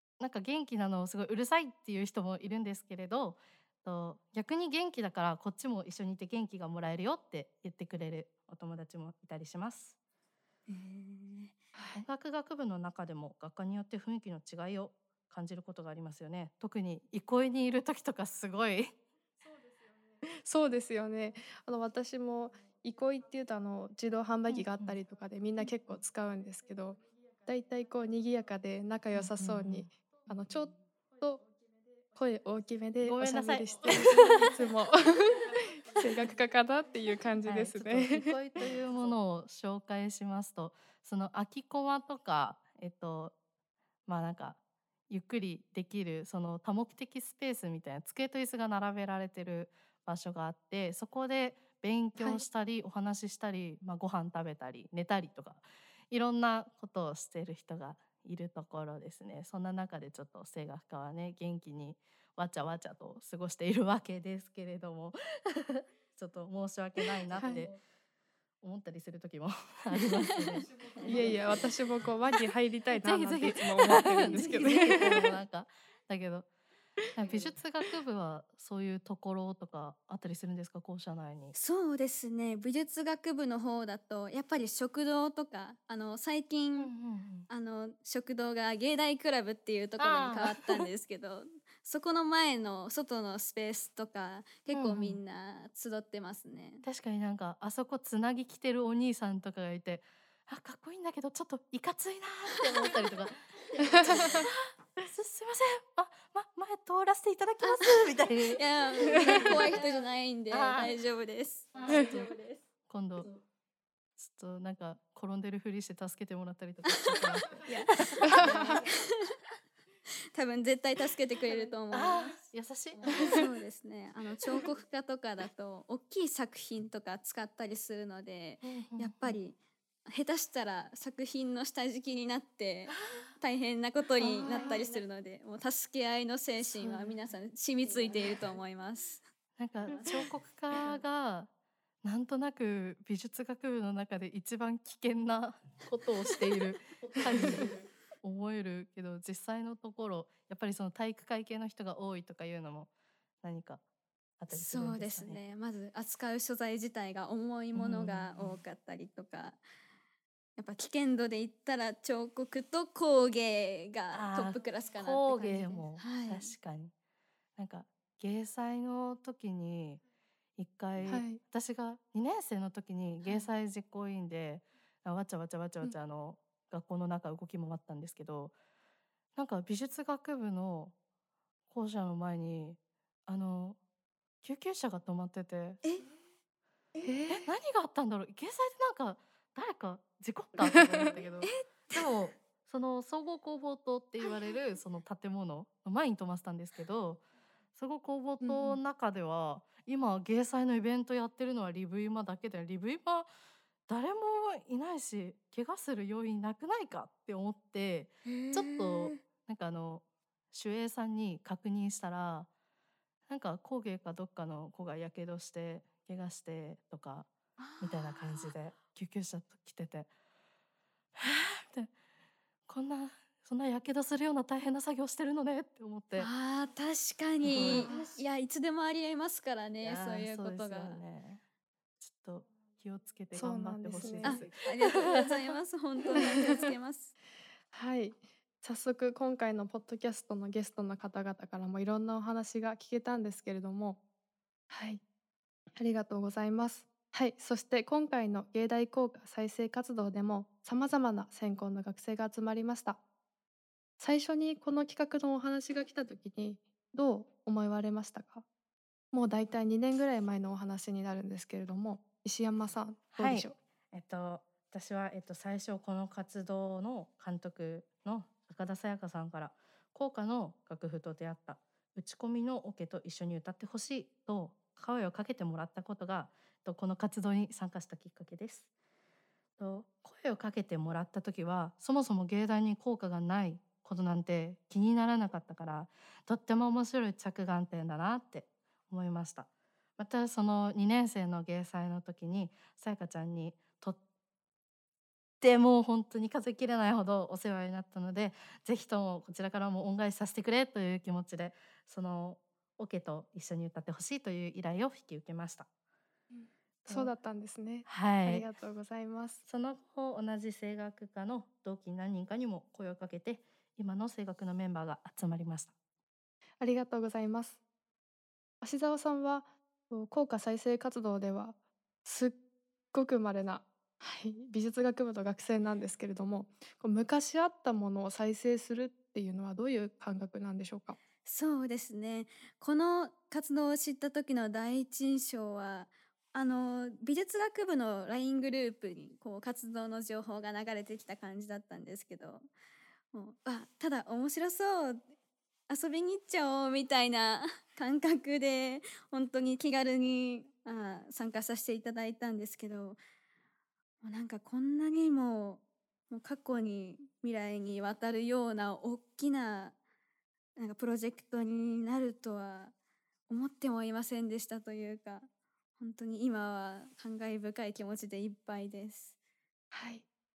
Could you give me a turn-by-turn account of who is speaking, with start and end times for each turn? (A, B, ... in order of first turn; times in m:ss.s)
0:00.2-0:10.0 A
0:10.7-0:11.5 B
0:11.7-0:12.0 C
0:12.0-0:18.9 A
0:20.2-0:31.4 C
0:24.5-0:25.0 A
0:29.1-0:29.9 A
0:32.1-0:38.4 C
0:33.0-0:34.4 A
0:37.4-0:43.3 A
0:44.1-1:07.8 A
0:52.2-0:52.4 C
1:07.3-1:07.7 C
1:08.6-1:11.4 A
1:10.3-1:11.4 B
1:11.0-1:15.2 C
1:13.0-1:16.5 A
1:14.1-1:15.2 B
1:17.1-1:21.5 A
1:21.5-1:26.9 B
1:26.8-1:27.5 A
1:27.5-1:36.8 B
1:30.0-1:30.8 A
1:34.7-1:35.2 A
1:36.8-1:49.6 A
1:47.6-1:52.6 B
1:50.5-1:50.9 A
1:52.9-1:53.3 A
1:54.2-1:58.4 A
1:57.6-1:58.8 B
2:00.3-2:02.4 B
2:01.9-2:03.4 A
2:03.0-2:19.2 B
2:08.6-2:09.4 A
2:12.9-2:13.2 A
2:14.2-2:14.8 A
2:14.4-2:14.7 C
2:16.7-2:17.1 A
2:19.6-2:21.5 A
2:22.0-2:32.9 A
2:33.4-2:33.8 A
2:34.4-2:35.4 A
2:34.5-2:39.6 B
2:37.7-2:38.6 A
2:40.6-2:46.5 B
2:44.1-2:46.9 A
2:47.6-2:50.0 A
2:50.6-2:58.5 A
2:51.0-2:51.4 C
2:59.3-3:00.9 A
3:01.7-3:03.8 A
3:04.4-3:05.8 A
3:07.0-3:07.4 C
3:07.3-3:17.2 A
3:10.6-3:11.0 C
3:11.4-3:12.2 B
3:17.7-3:23.3 A
3:18.4-3:18.8 C
3:23.9-3:32.5 A
3:28.2-3:29.2 B
3:33.3-3:37.3 A
3:37.6-3:38.5 B
3:37.8-3:40.1 A
3:41.2-3:41.9 A
3:42.7-3:46.3 A
3:46.2-3:51.0 B
3:47.4-3:47.9 A
3:47.7-3:48.2 C
3:49.8-3:51.4 A
3:52.0-3:55.0 A
3:53.3-3:54.5 C
3:54.2-3:57.1 B
3:56.2-3:56.5 C
3:57.7-4:04.0 C
4:04.7-4:05.0 C
4:05.8-4:13.0 C
4:14.0-4:18.4 C
4:19.1-4:23.6 C
4:23.1-4:38.7 A
4:39.6-4:54.0 A
4:55.4-5:05.7 A
5:06.3-5:09.4 C
5:06.8-5:07.1 A
5:07.8-5:08.4 A
5:09.5-5:15.7 A
5:16.6-5:17.6 C
5:18.6-5:22.4 C
5:22.9-5:31.0 C
5:31.2-5:42.5 B
5:43.1-5:45.0 B
5:45.7-5:53.0 B
5:54.0-5:59.8 B
6:00.6-6:02.7 B
6:03.3-6:05.2 B
6:05.8-6:09.2 B
6:09.7-6:10.0 C